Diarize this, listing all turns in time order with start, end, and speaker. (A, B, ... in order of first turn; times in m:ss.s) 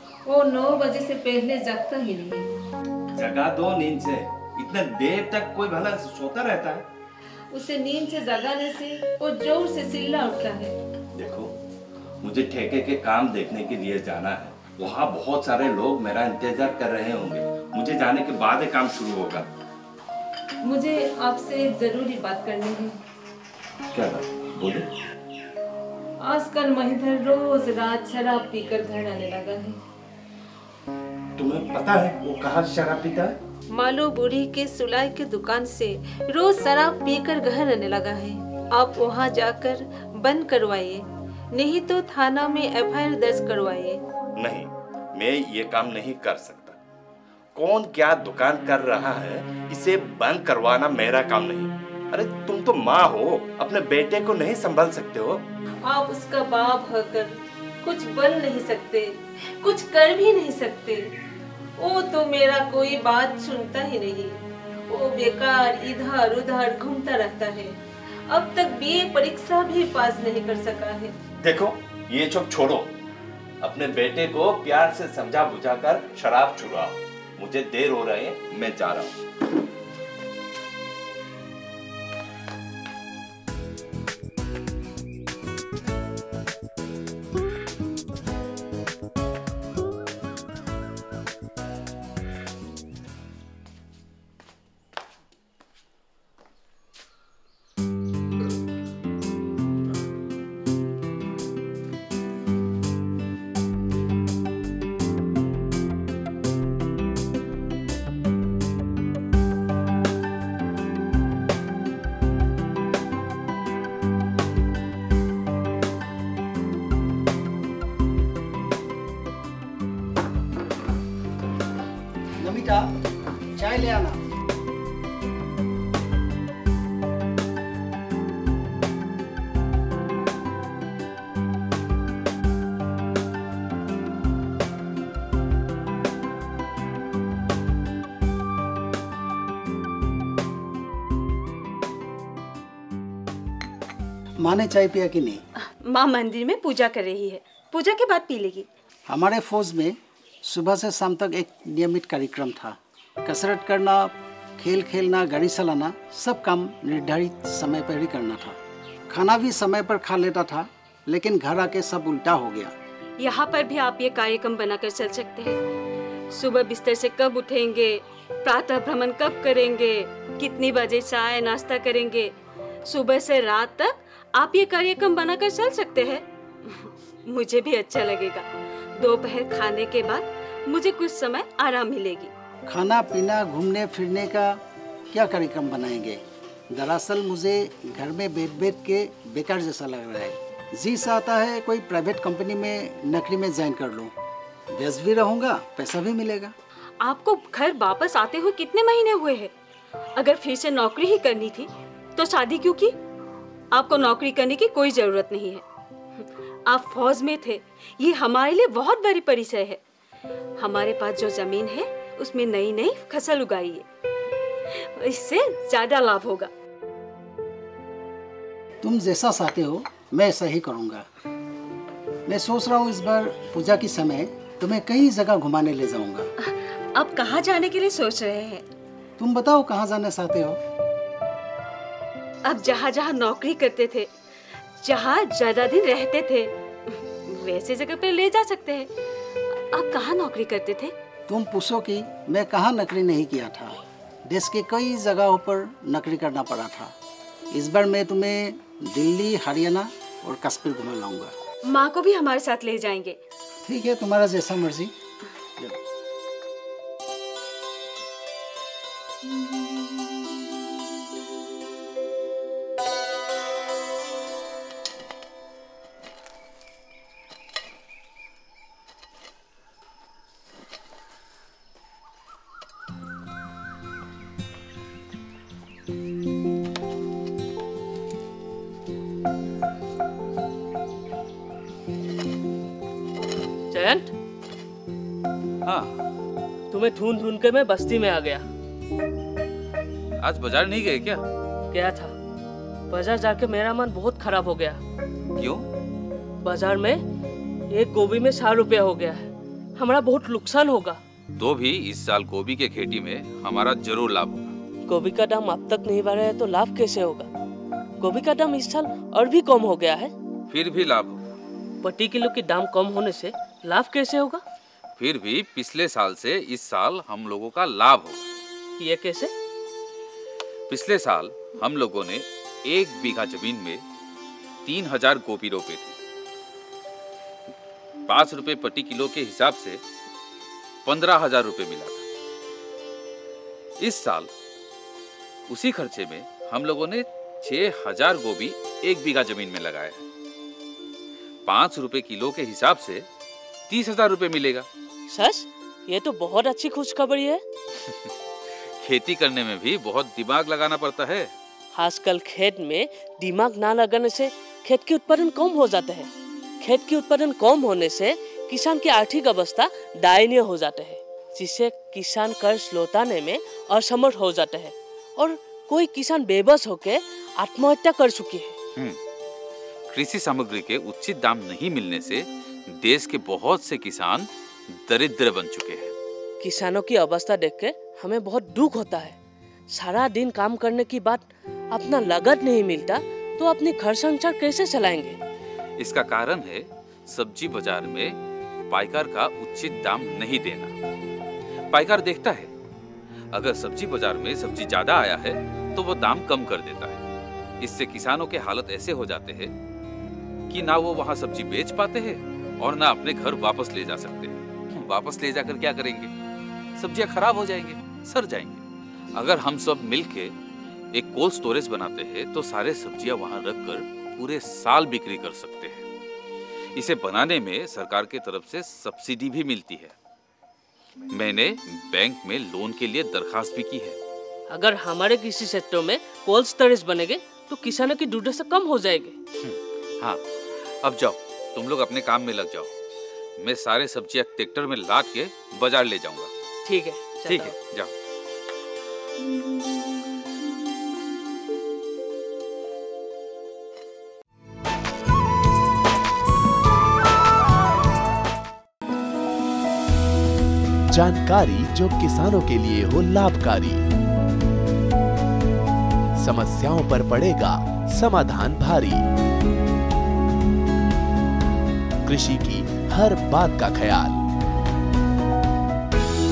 0:00.3-0:02.5 A
0:03.2-0:06.9 B
0:07.5-0:10.7 A
0:11.2-0:11.5 B
0:12.2-0:19.5 B
0:20.6-0:23.0 A
0:23.9-0:24.9 B
0:26.2-0:29.8 A
0:31.4-0:33.4 B
0:33.7-0:44.0 A
0:44.4-0:46.8 B
0:47.6-0:55.4 B
0:55.8-1:01.1 A
1:01.8-1:07.8 A
1:08.3-1:11.1 A
1:11.4-1:12.9 B
1:13.6-1:19.2 B
2:02.4-2:03.0 C
2:03.6-2:04.2 C
2:24.4-2:25.4 C
2:25.8-2:28.7 D
2:29.1-2:38.6 C
2:39.1-2:42.7 C
2:43.2-2:45.6 D
2:46.3-2:52.3 D
2:52.9-2:58.4 D
2:59.0-3:02.3 D
3:02.7-3:04.6 C
3:05.1-3:14.1 C
3:14.7-3:16.5 C
3:17.0-3:19.5 D
3:20.2-3:22.9 D
3:23.7-3:25.6 D
3:26.2-3:29.8 D
3:30.6-3:33.8 D
3:34.7-3:36.5 D
3:38.8-3:41.1 C
3:42.3-3:46.3 C
3:46.4-3:48.7 D
3:49.2-3:50.6 C
3:52.4-3:54.1 D
3:54.8-3:58.9 D
3:59.7-4:00.9 D
4:01.3-4:06.9 C
4:07.5-4:11.3 C
4:11.7-4:13.2 D
4:13.6-4:14.9 C
4:43.7-4:44.1 E
4:45.6-4:45.9 F
4:46.7-4:48.4 E
4:50.2-4:51.2 F
4:51.7-4:52.1 E
4:52.9-4:54.8 E
4:55.4-4:55.7 F
4:56.4-4:57.0 E
4:57.7-5:01.0 E
5:01.4-5:04.6 F
5:04.9-5:07.3 E
5:08.0-5:10.1 E
5:10.5-5:11.2 F
5:11.8-5:14.4 E
5:15.0-5:18.3 F
5:18.8-5:19.3 E
5:20.7-5:23.8 F
5:24.6-5:26.0 F
5:28.1-5:29.8 F
5:30.8-5:32.0 F
5:33.8-5:34.3 F
5:35.5-5:40.0 F
5:41.5-5:43.1 F
5:43.7-5:44.7 F
5:45.1-5:47.4 E
5:48.8-5:51.3 F
5:51.8-5:56.1 E
5:56.6-6:08.6 E
6:09.9-6:15.9 F
6:16.4-6:19.2 E
6:19.7-6:25.2 E
6:25.8-6:28.2 F
6:28.7-6:30.8 F
6:31.7-6:32.5 F
6:33.3-6:37.0 F
6:37.6-6:39.5 F
6:40.5-6:46.1 F
6:46.8-6:48.6 F
6:49.2-6:50.4 F
6:50.9-6:55.9 F
6:56.8-7:00.0 F
7:01.1-7:04.0 F
7:04.5-7:09.2 E
7:09.4-7:12.7 F
7:13.4-7:16.3 F
7:16.6-7:17.6 E
7:17.3-7:17.9 F
7:30.9-7:33.8 G
7:36.2-7:39.1 G
7:42.0-7:44.2 G